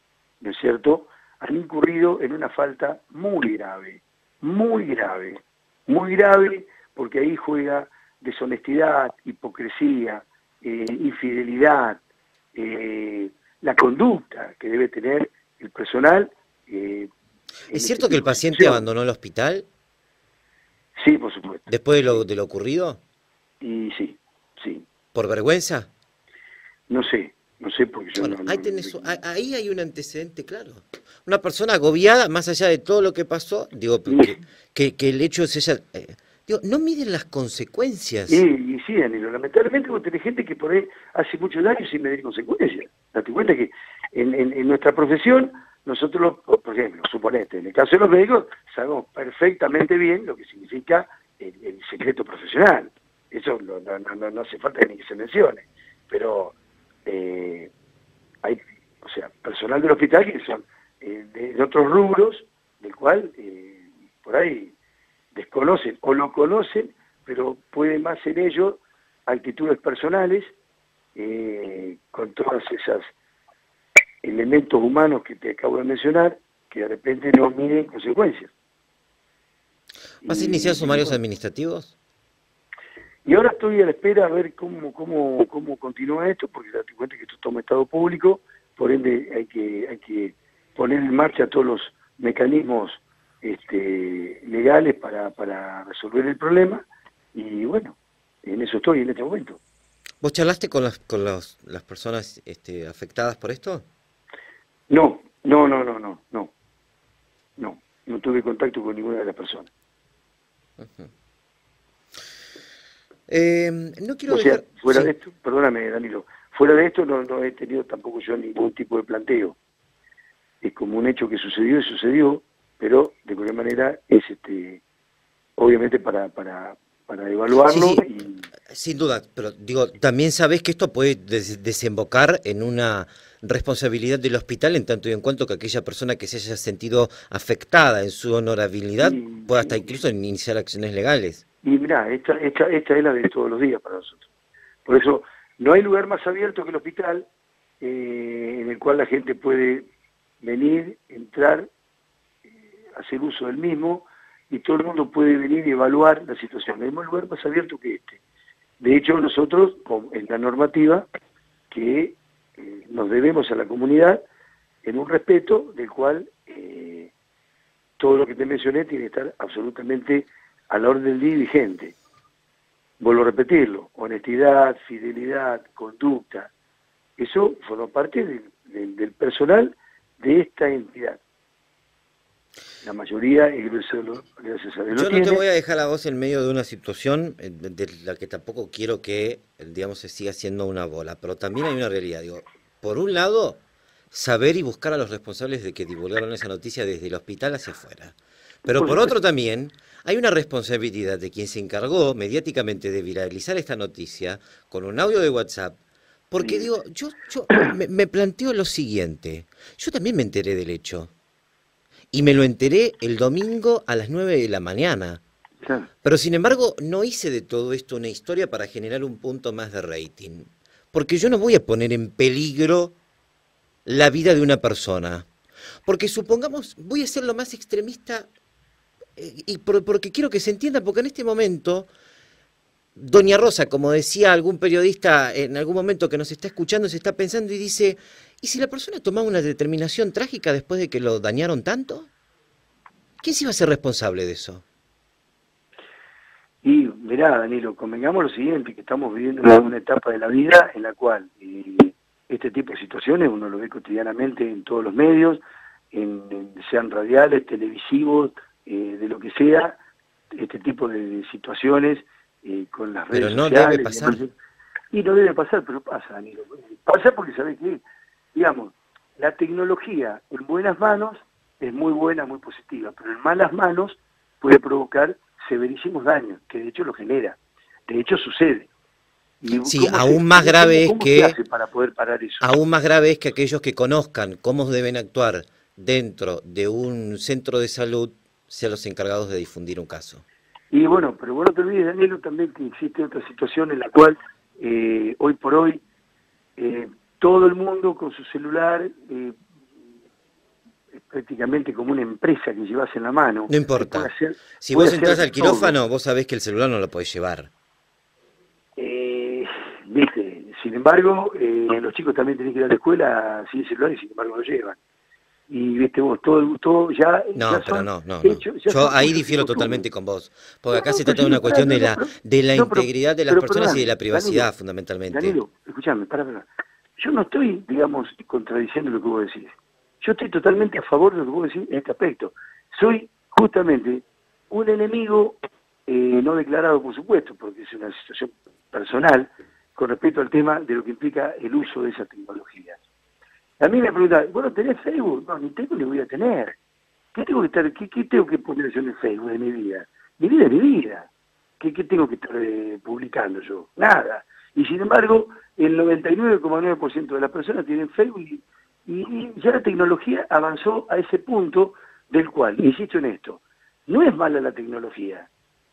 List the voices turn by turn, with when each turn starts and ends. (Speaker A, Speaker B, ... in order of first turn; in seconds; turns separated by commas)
Speaker A: 0.4-12.0, Speaker A: 12.5-17.1, Speaker B: 17.7-19.7, Speaker A: 17.7-18.9, Speaker A: 21.0-22.2, Speaker B: 21.7-23.0, Speaker A: 23.6-24.9, Speaker B: 25.1-25.9, Speaker A: 26.9-29.1, Speaker B: 28.2-38.4, Speaker A: 34.1-34.4, Speaker A: 38.3-56.5, Speaker A: 57.1-57.7, Speaker A: 58.4-64.7, Speaker A: 65.3-70.5, Speaker A: 71.2-73.1, Speaker A: 74.2-78.5, Speaker A: 80.2-81.2, Speaker B: 80.3-81.9, Speaker A: 83.3-99.6, Speaker B: 100.2-103.8, Speaker A: 104.9-106.5, Speaker A: 107.6-109.7, Speaker B: 110.8-111.1, Speaker B: 113.3-115.1, Speaker A: 114.3-119.6, Speaker A: 120.6-124.8, Speaker A: 125.6-128.5, Speaker B: 127.7-128.0, Speaker B: 128.7-141.4, Speaker A: 139.0-140.0, Speaker A: 141.6-144.3, Speaker A: 144.9-147.3, Speaker A: 147.8-149.9, Speaker A: 150.4-151.7, Speaker A: 152.9-158.2, Speaker A: 158.8-161.1, Speaker A: 161.7-164.2, Speaker A: 164.8-167.1, Speaker A: 168.0-171.9, Speaker A: 173.0-176.5, Speaker A: 177.2-181.2, Speaker A: 182.8-185.4, Speaker B: 184.9-193.6, Speaker B: 194.1-205.8, Speaker A: 198.8-199.2, Speaker B: 206.3-211.1, Speaker A: 206.4-206.7, Speaker B: 212.1-215.2, Speaker A: 215.6-215.9, Speaker B: 216.0-222.9, Speaker B: 223.9-225.3, Speaker B: 225.9-228.3, Speaker B: 229.2-231.9, Speaker B: 233.0-242.1, Speaker B: 243.2-244.6, Speaker A: 246.6-259.8, Speaker A: 260.3-264.3, Speaker B: 263.1-264.2, Speaker A: 264.9-267.8, Speaker A: 268.3-278.7, Speaker A: 279.4-282.5, Speaker B: 279.6-281.4, Speaker B: 282.4-290.2, Speaker A: 290.7-295.8, Speaker A: 296.6-299.4, Speaker A: 300.9-305.8, Speaker B: 303.5-307.5, Speaker A: 308.8-314.8, Speaker A: 315.5-319.8, Speaker B: 317.4-325.4, Speaker A: 320.7-324.5, Speaker A: 325.1-342.8, Speaker A: 343.6-346.6, Speaker A: 347.1-351.1, Speaker A: 351.6-365.3